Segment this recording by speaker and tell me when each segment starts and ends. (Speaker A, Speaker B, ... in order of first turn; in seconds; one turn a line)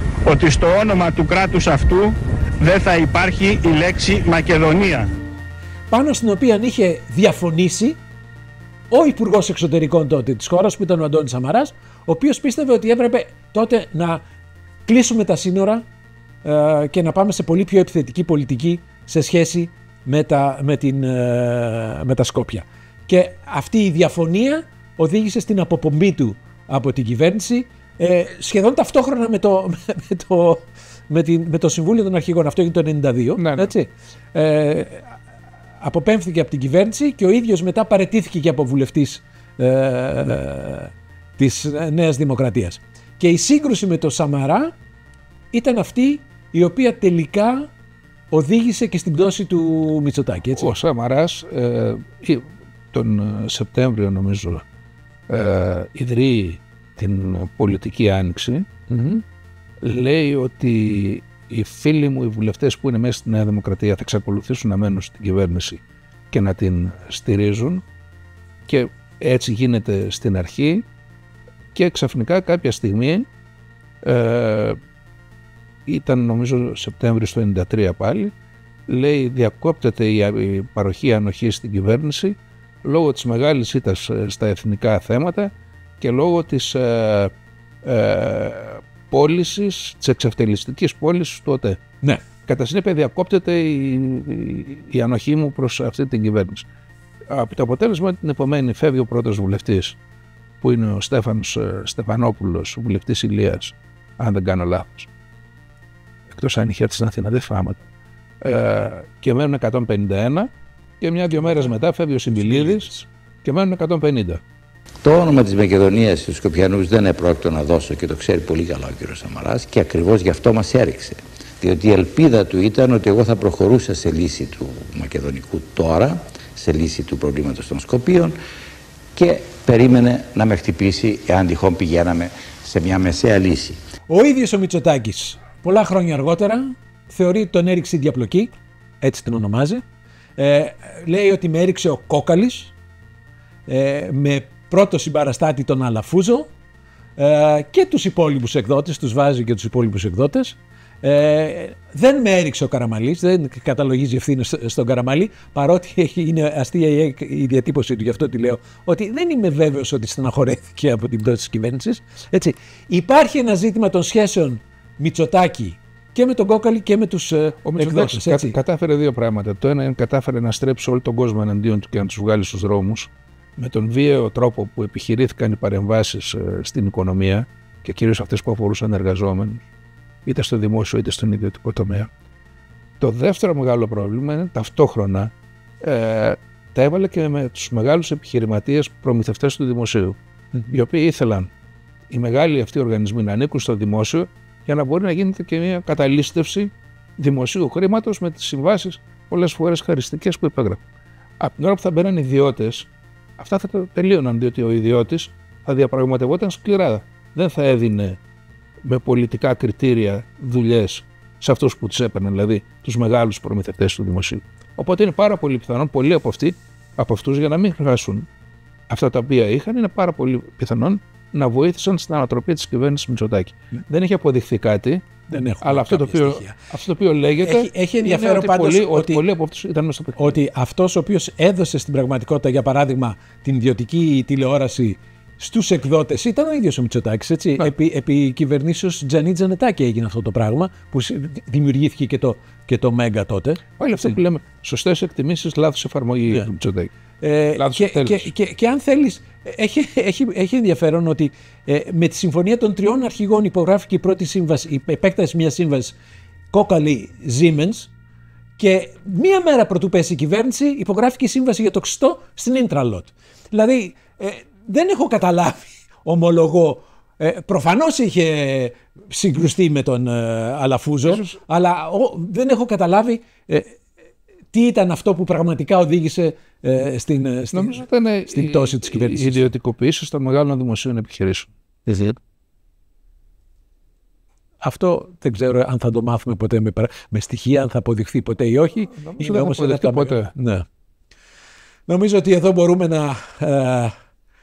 Speaker A: 0.2-5.1
Speaker B: 5.9-8.0
Speaker B: 8.9-14.2
Speaker B: 14.9-15.8
Speaker B: 16.4-35.2
Speaker C: 33.4-33.7
Speaker B: 35.8-44.7
Speaker B: 45.5-47.7
Speaker B: 48.3-50.7
Speaker C: 50.5-54.6
Speaker C: 55.3-58.9
Speaker B: 58.9-59.2
Speaker C: 59.8-65.8
Speaker C: 66.3-67.8
Speaker C: 68.7-70.9
Speaker C: 71.8-73.3
Speaker C: 74.0-74.8
Speaker C: 75.9-78.3
Speaker C: 78.9-87.3
Speaker C: 87.8-91.8
Speaker C: 92.5-96.7
Speaker C: 97.3-100.0
Speaker C: 100.6-105.1
Speaker C: 106.3-107.8
Speaker C: 108.4-110.5
Speaker C: 111.0-112.9
Speaker B: 112.4-112.9
Speaker C: 113.4-114.4
Speaker D: 115.0-128.3
Speaker D: 129.2-133.8
Speaker B: 134.1-138.5
Speaker B: 139.0-139.8
Speaker B: 140.4-142.7
Speaker B: 143.7-146.5
Speaker B: 147.2-168.5
Speaker C: 167.7-179.6
Speaker C: 180.3-182.1
Speaker C: 183.0-190.2
Speaker C: 190.7-191.5
Speaker C: 192.1-200.8
Speaker C: 201.4-202.9
Speaker C: 203.4-208.2
Speaker C: 208.8-218.3
Speaker C: 218.9-225.1
Speaker B: 225.3-226.6
Speaker C: 225.6-230.4
Speaker B: 227.4-229.2
Speaker B: 230.2-243.6
Speaker C: 243.8-246.9
Speaker B: 247.2-256.0
Speaker C: 247.6-248.3
Speaker B: 256.5-257.9
Speaker B: 258.6-273.8
Speaker C: 271.1-271.4
Speaker B: 274.5-279.5
Speaker C: 277.5-281.5
Speaker B: 284.6-290.6
Speaker C: 289.0-290.3
Speaker B: 291.9-293.9